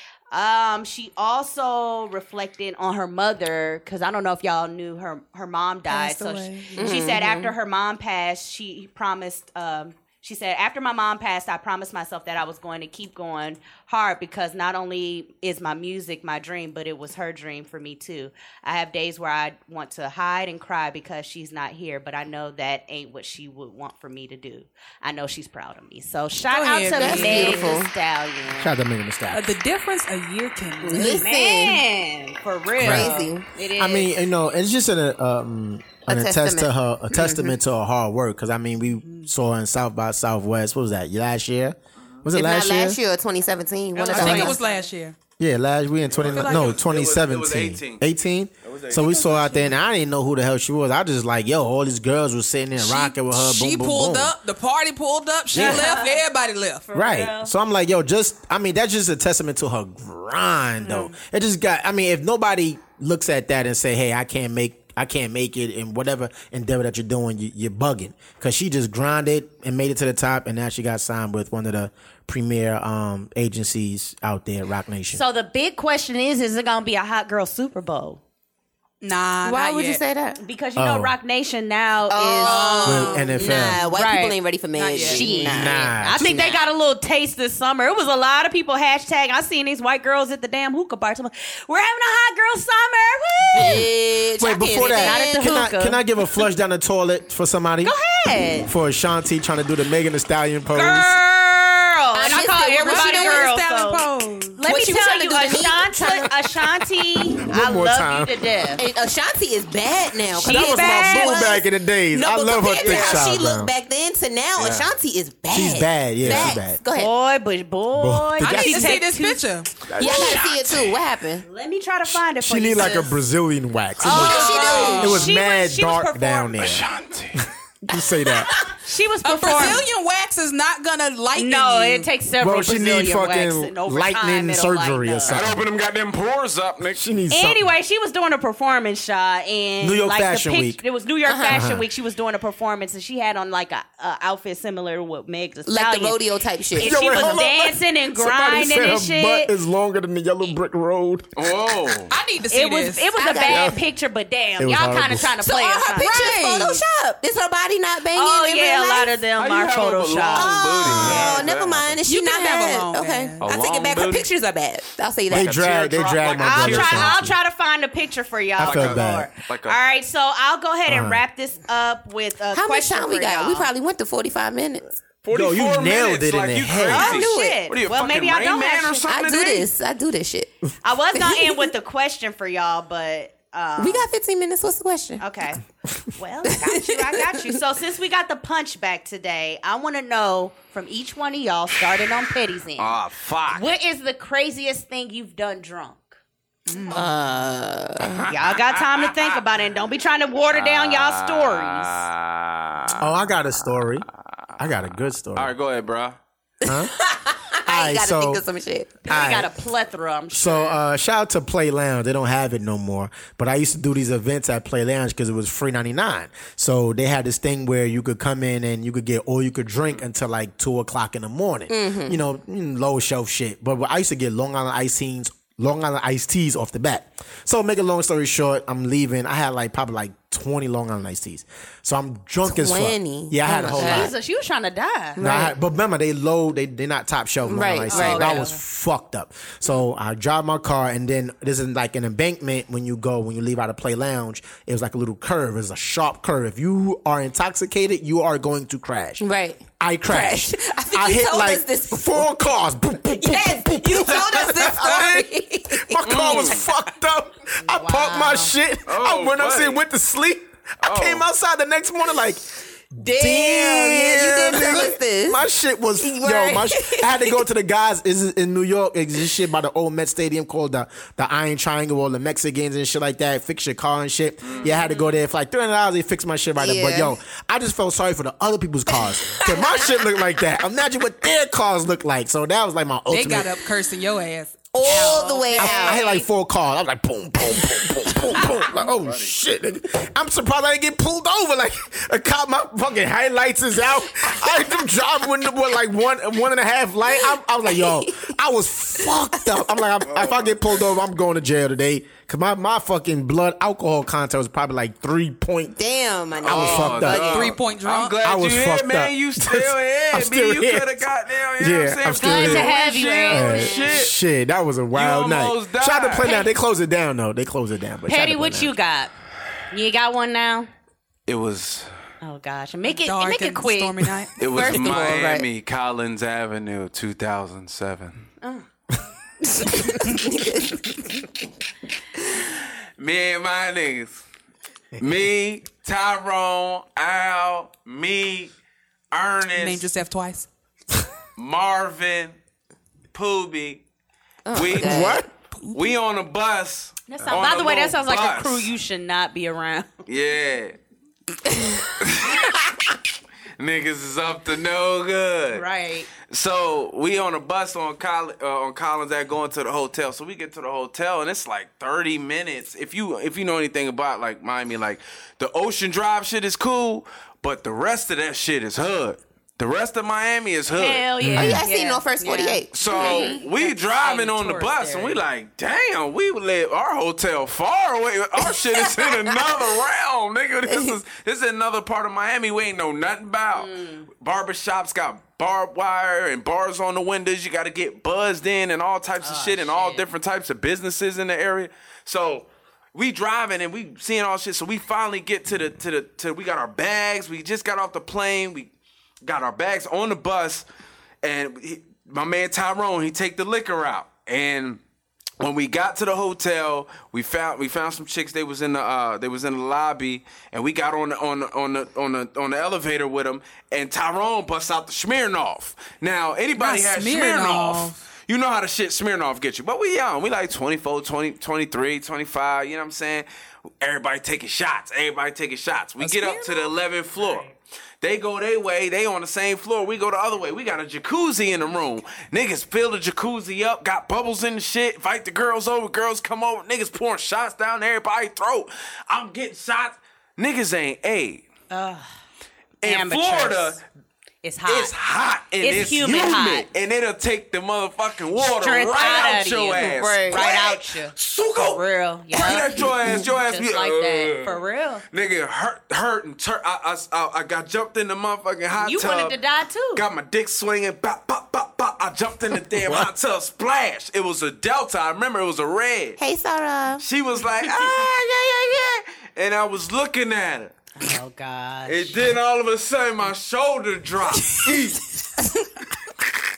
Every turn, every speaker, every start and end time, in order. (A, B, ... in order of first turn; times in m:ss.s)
0:00.3-0:28.7 A
0:05.9-0:07.0 B
0:06.8-0:07.6 C
0:26.5-0:27.8 B
0:26.9-0:27.9 C
0:28.5-0:29.5 D
0:29.3-0:31.3 B
0:30.8-0:31.8 C
0:30.9-0:34.1 A
0:32.8-0:33.2 D
0:32.8-0:33.4 C
0:33.8-0:43.0 D
0:36.1-0:37.6 C
0:39.0-0:39.3 B
0:42.3-0:44.6 C
0:44.0-0:45.2 B
0:44.1-0:44.7 A
0:44.1-0:44.6 D
0:45.4-0:54.3 D
0:46.1-0:48.0 E
0:46.4-0:46.8 B
0:48.6-0:49.4 E
0:52.8-0:56.9 B
0:55.5-0:55.9 D
0:55.6-0:56.2 A
0:56.9-0:57.5 A
0:56.9-1:15.2 D
1:15.1-1:18.2 A
1:19.0-1:20.0 B
1:19.4-1:20.4 C
1:20.4-1:24.4 A
1:20.8-1:21.2 D
1:22.1-1:26.6 C
1:22.4-1:23.6 B
1:22.9-1:23.8 D
1:24.8-1:25.7 B
1:24.9-1:33.8 A
1:25.5-1:26.4 D
1:33.5-1:35.5 C
1:33.6-1:33.9 D
1:34.4-1:37.9 D
1:34.9-1:36.0 A
1:37.8-1:38.7 A
1:38.6-1:41.2 D
1:40.7-1:48.8 A
1:42.1-1:43.5 C
1:42.8-1:44.6 B
1:44.6-1:46.6 C
1:47.5-1:48.3 D
1:48.8-1:57.1 C
1:50.4-1:53.7 D
1:50.4-1:51.6 A
1:52.8-1:53.2 A
1:54.6-1:54.9 E
1:55.5-1:56.8 D
1:56.2-1:56.5 E
1:56.9-1:59.5 A
1:58.0-1:59.0 D
1:58.4-1:59.8 B
1:59.9-2:00.6 D
2:00.0-2:01.5 C
2:00.0-2:00.7 E
2:01.4-2:03.2 A
2:02.1-2:08.6 D
2:04.0-2:06.7 A
2:04.0-2:05.2 C
2:04.5-2:05.1 B
2:06.6-2:07.5 E
2:08.8-2:09.8 A
2:09.2-2:12.1 B
2:11.4-2:15.4 A
2:12.4-2:15.7 D
2:15.3-2:17.0 E
2:17.0-2:17.7 D
2:17.3-2:26.2 A
2:19.8-2:20.8 D
2:21.3-2:21.6 C
2:21.5-2:21.8 D
2:25.7-2:27.3 C
2:26.8-2:29.5 A
2:26.8-2:31.5 D
2:31.4-2:32.1 E
2:32.1-2:33.1 B
2:32.5-2:36.3 A
2:33.2-2:33.8 C
2:33.4-2:33.8 D
2:34.6-2:35.4 D
2:35.4-2:39.2 C
2:36.0-2:36.8 B
2:38.2-2:41.4 A
2:39.4-2:42.0 E
2:40.3-2:45.6 C
2:40.8-2:41.3 D
2:42.1-2:43.4 B
2:43.4-2:44.3 E
2:45.3-2:47.4 D
2:45.3-2:47.2 E
2:46.3-2:53.7 A
2:48.6-2:49.3 D
2:48.6-2:49.8 E
2:50.9-2:51.2 D
2:52.5-2:54.9 C
2:55.2-2:59.7 E
2:55.3-2:57.1 D
2:56.9-2:59.1 A
2:57.0-2:57.6 C
2:59.1-3:00.5 C
3:00.8-3:04.1 A
3:01.1-3:01.7 C
3:03.8-3:05.2 C
3:05.2-3:05.6 A
3:06.2-3:13.0 A
3:06.5-3:07.4 C
3:12.8-3:13.7 E
3:13.5-3:16.2 A
3:16.7-3:17.1 B
3:16.9-3:18.3 C
3:18.2-3:19.4 E
3:18.3-3:22.0 A
3:20.5-3:23.1 E
3:23.0-3:24.1 D
3:24.6-3:25.5 D
3:25.4-3:26.2 E
3:26.6-3:29.0 C
3:26.7-3:26.9 D
3:27.6-3:28.4 D
3:29.1-3:29.5 D
3:29.1-3:30.8 A
3:30.3-3:54.1 D
3:41.7-3:42.2 C
3:52.4-3:54.1 C
3:53.5-3:55.2 A
3:55.2-3:55.6 C
3:55.2-4:09.2 D
3:57.5-3:58.4 C
3:57.9-3:58.6 A
4:09.2-4:12.3 C
4:09.8-4:22.4 D
4:13.1-4:16.6 C
4:16.0-4:16.7 E
4:17.7-4:18.5 A
4:18.9-4:19.8 E
4:20.8-4:21.2 E
4:23.0-4:43.6 D
4:23.0-4:25.4 C
4:26.0-4:27.4 C
4:34.4-4:34.8 E
4:36.6-4:37.2 C
4:38.9-4:40.1 C
4:43.1-4:45.5 B
4:44.7-4:46.2 C
4:44.9-4:46.2 A
4:45.6-5:05.8 D
4:57.2-4:58.3 C
4:59.0-4:59.4 C
5:00.1-5:00.6 E
5:05.8-5:07.6 C
5:06.4-5:07.5 D
5:06.5-5:14.1 E
5:07.1-5:08.2 B
5:08.2-5:18.8 D
5:12.2-5:14.0 A
5:14.9-5:16.3 E
5:16.2-5:16.5 A
5:18.1-5:19.1 A
5:19.7-5:20.7 A
5:21.3-5:21.9 E
5:22.2-5:25.2 A
5:23.0-5:24.4 B
5:24.4-5:28.3 E
5:24.5-5:25.5 C
5:29.7-5:31.2 C
5:33.0-5:34.2 E
5:35.0-5:38.5 E
5:39.1-5:39.9 E
5:39.5-5:40.5 B
5:41.4-5:42.4 E
5:43.1-5:43.8 E
5:44.5-5:45.2 C
5:44.5-5:45.2 E
5:44.7-5:45.3 D
5:45.6-5:46.0 B
5:45.7-5:48.7 E
5:47.1-5:49.9 A
5:50.1-5:50.8 E
5:52.0-5:52.4 E
5:53.6-5:55.6 E
5:55.5-5:56.1 A
5:56.3-6:11.1 E
6:10.7-6:15.2 A
6:11.2-6:11.6 D
6:11.3-6:13.4 C
6:12.7-6:38.7 E
6:18.4-6:19.4 C
6:23.6-6:24.1 A
6:29.2-6:30.0 A
6:39.2-6:40.6 E
6:41.2-6:44.8 E
6:45.4-7:03.3 E
6:56.6-6:58.0 B
7:03.8-7:21.4 E
7:06.0-7:06.7 B
7:21.7-7:22.1 A
7:22.8-7:23.8 E
7:22.8-7:23.8 A
7:24.4-7:24.9 A
7:24.7-7:34.6 E
7:25.6-7:26.7 A
7:28.4-7:35.0 A
7:35.1-7:39.4 E
7:38.8-7:40.0 A
7:39.9-7:46.2 E
7:42.7-7:43.1 D
7:46.2-7:47.0 C
7:47.0-7:50.8 E
7:51.0-7:52.2 A
7:51.9-7:55.0 E